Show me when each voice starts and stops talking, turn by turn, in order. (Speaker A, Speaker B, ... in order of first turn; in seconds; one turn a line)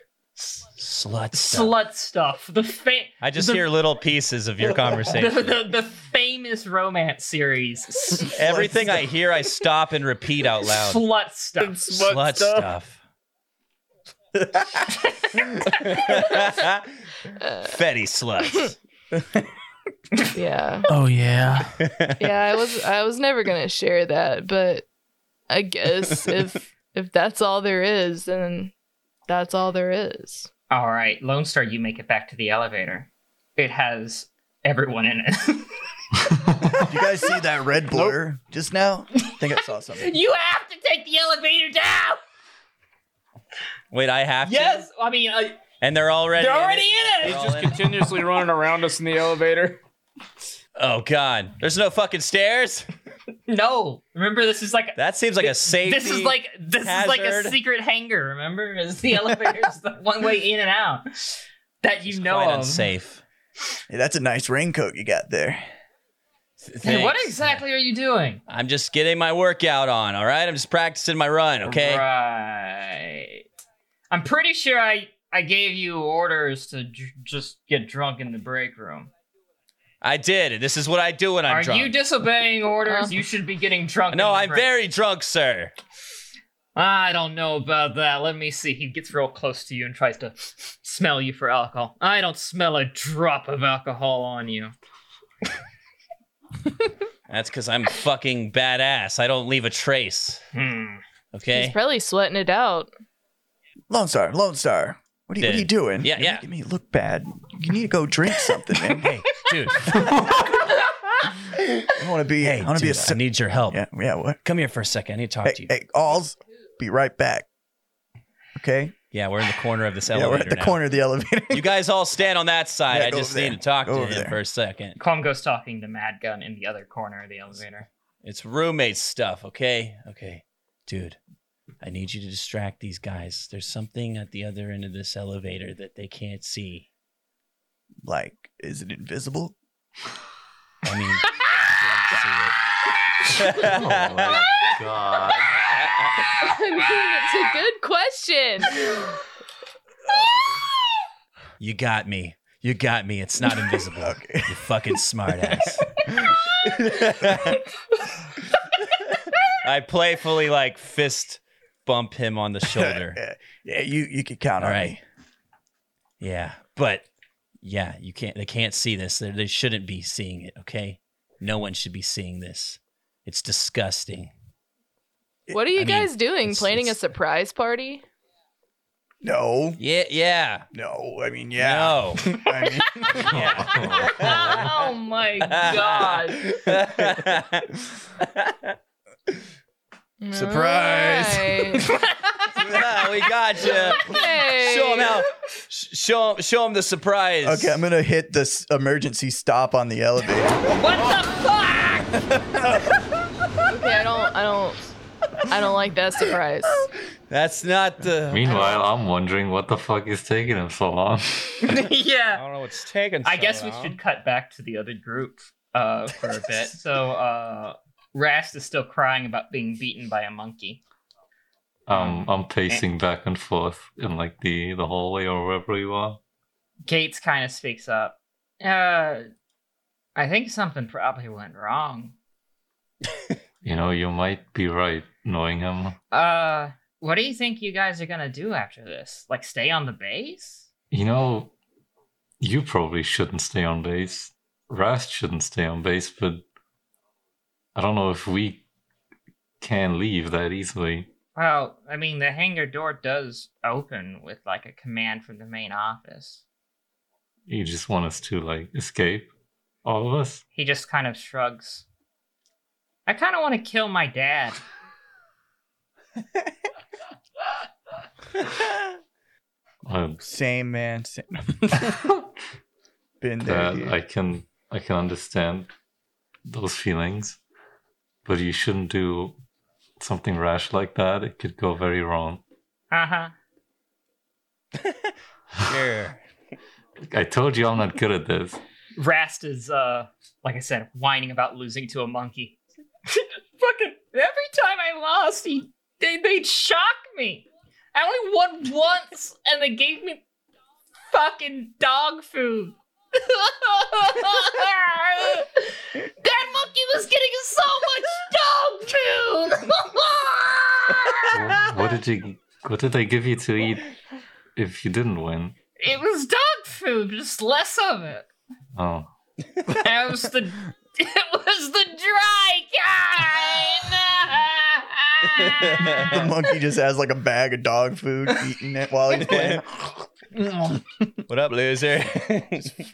Speaker A: 0.4-1.7
Speaker B: 1.3-3.6
Speaker A: 3.2-5.6
Speaker B: 5.1-8.3
Speaker A: 8.3-11.0
Speaker C: 8.4-9.0
Speaker B: 10.7-11.9
Speaker D: 11.6-12.7
Speaker A: 11.9-13.0
Speaker B: 14.9-16.1
Speaker A: 15.5-16.9
Speaker E: 17.4-17.7
Speaker A: 17.6-18.8
Speaker E: 20.3-20.9
Speaker D: 20.9-21.8
Speaker A: 21.8-22.3
Speaker E: 22.2-24.9
Speaker E: 25.5-28.7
Speaker E: 29.3-30.5
Speaker B: 30.7-35.7
Speaker C: 36.8-40.1
Speaker D: 37.9-38.2
Speaker B: 40.0-42.2
Speaker A: 43.9-44.9
Speaker B: 44.4-45.6
Speaker A: 45.8-47.9
Speaker B: 46.4-47.5
Speaker D: 47.2-49.8
Speaker A: 50.8-52.9
Speaker B: 53.5-62.9
Speaker A: 55.0-57.6
Speaker A: 62.1-63.2
Speaker C: 63.9-65.6
Speaker A: 66.6-67.6
Speaker B: 66.8-68.4
Speaker A: 68.5-72.0
Speaker B: 71.7-73.4
Speaker B: 74.1-79.1
Speaker A: 80.0-81.9
Speaker B: 81.5-84.7
Speaker A: 84.1-85.7
Speaker B: 86.8-94.7
Speaker A: 97.3-100.4
Speaker B: 100.5-101.0
Speaker A: 101.3-101.8
Speaker E: 101.5-102.9
Speaker C: 103.9-109.1
Speaker A: 105.4-106.4
Speaker A: 109.0-110.4
Speaker C: 111.9-114.4
Speaker A: 112.4-113.8
Speaker A: 114.4-115.7
Speaker C: 115.5-117.5
Speaker C: 118.6-119.0
Speaker A: 119.1-120.8
Speaker C: 120.1-121.8
Speaker A: 121.5-125.0
Speaker C: 122.9-124.4
Speaker B: 125.0-127.9
Speaker A: 128.2-131.2
Speaker A: 131.8-136.9
Speaker C: 138.0-139.6
Speaker A: 140.8-142.6
Speaker A: 143.3-144.4
Speaker F: 143.6-145.6
Speaker E: 146.4-148.9
Speaker A: 151.6-156.3
Speaker C: 154.0-154.7
Speaker C: 155.5-157.5
Speaker A: 156.8-157.6
Speaker A: 159.6-163.2
Speaker C: 162.7-165.0
Speaker A: 164.6-164.9
Speaker A: 166.2-167.1
Speaker A: 167.6-174.3
Speaker E: 175.5-178.0
Speaker A: 175.8-176.9
Speaker C: 179.2-179.8
Speaker A: 179.8-180.7
Speaker C: 180.7-183.5
Speaker A: 181.6-182.4
Speaker A: 183.2-184.7
Speaker F: 183.3-184.4
Speaker B: 184.0-186.5
Speaker A: 185.4-188.8
Speaker E: 190.2-191.9
Speaker C: 190.3-191.8
Speaker B: 192.1-192.6
Speaker A: 192.6-197.8
Speaker E: 193.7-195.2
Speaker C: 197.4-200.7
Speaker B: 200.7-202.3
Speaker C: 202.3-202.9
Speaker E: 203.7-204.9
Speaker E: 205.5-206.9
Speaker A: 207.3-208.8
Speaker F: 208.3-211.8
Speaker B: 211.6-212.4
Speaker A: 212.3-214.0
Speaker B: 213.2-220.8
Speaker F: 221.9-226.2
Speaker B: 221.9-222.8
Speaker B: 226.9-229.2
Speaker B: 230.2-232.2
Speaker F: 233.6-236.0
Speaker B: 236.1-240.7
Speaker F: 240.9-241.5
Speaker F: 242.4-246.4
Speaker F: 247.8-248.6
Speaker F: 249.6-251.1
Speaker B: 251.4-256.4
Speaker F: 257.5-259.3
Speaker F: 259.9-260.4
Speaker B: 260.6-261.9
Speaker B: 263.1-264.6
Speaker F: 269.8-270.2
Speaker C: 270.2-272.1
Speaker C: 273.2-274.0
Speaker F: 273.4-275.7
Speaker F: 276.4-277.4
Speaker F: 278.2-279.4
Speaker F: 280.0-282.4
Speaker B: 282.9-283.3
Speaker A: 284.8-286.2
Speaker F: 287.1-288.6
Speaker B: 289.0-300.2
Speaker B: 301.1-311.4
Speaker F: 311.3-313.9
Speaker F: 314.6-315.6
Speaker B: 315.8-318.3
Speaker F: 318.8-319.1
Speaker B: 319.7-326.2
Speaker A: 325.4-326.3
Speaker C: 326.0-329.9
Speaker A: 329.2-329.6
Speaker A: 331.3-332.7